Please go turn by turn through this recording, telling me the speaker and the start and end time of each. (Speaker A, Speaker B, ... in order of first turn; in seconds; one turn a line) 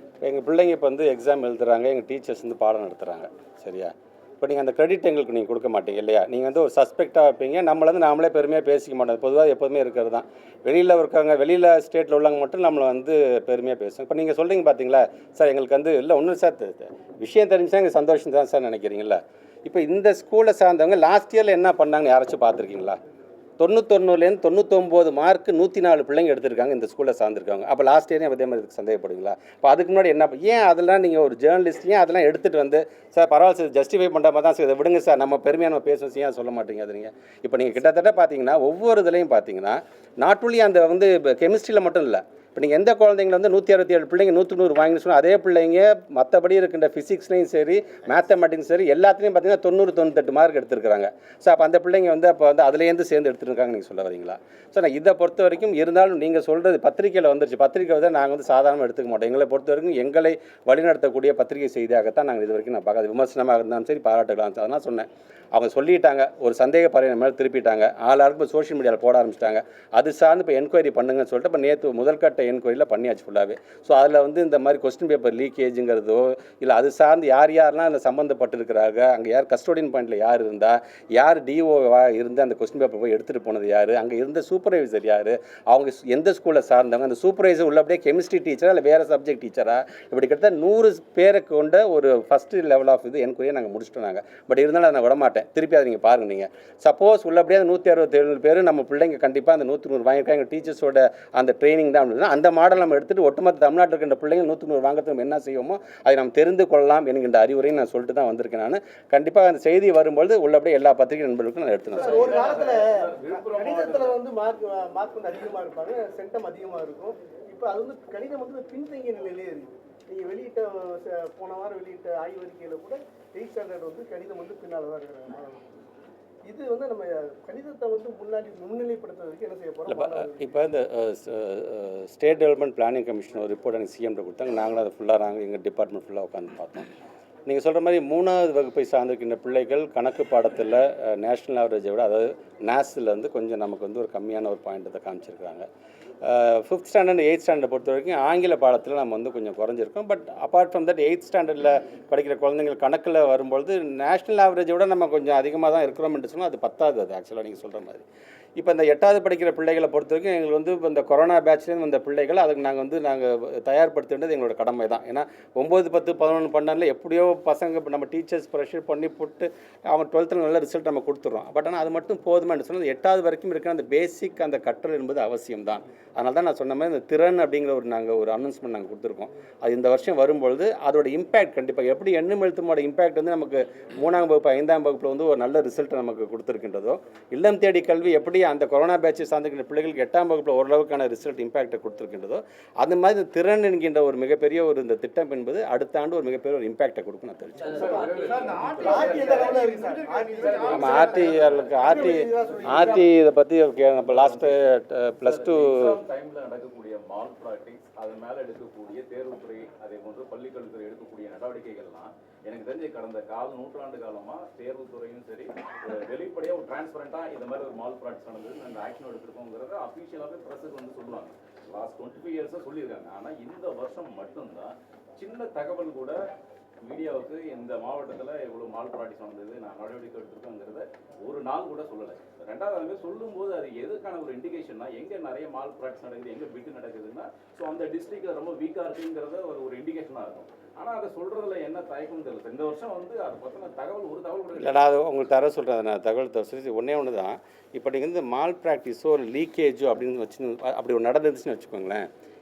Speaker A: 0.2-23.0
Speaker A: 23.6-112.3
Speaker B: 111.9-114.2
Speaker C: 111.9-125.6
Speaker C: 126.5-130.5
Speaker A: 129.9-136.9
Speaker A: 137.4-145.7
Speaker A: 146.2-158.0
Speaker A: 158.6-197.9
Speaker B: 197.7-199.7
Speaker C: 198.6-203.0
Speaker B: 200.3-201.9
Speaker A: 200.7-205.9
Speaker B: 202.6-203.1
Speaker B: 204.1-204.5
Speaker B: 205.2-226.2
Speaker B: 226.8-244.8
Speaker A: 244.6-252.1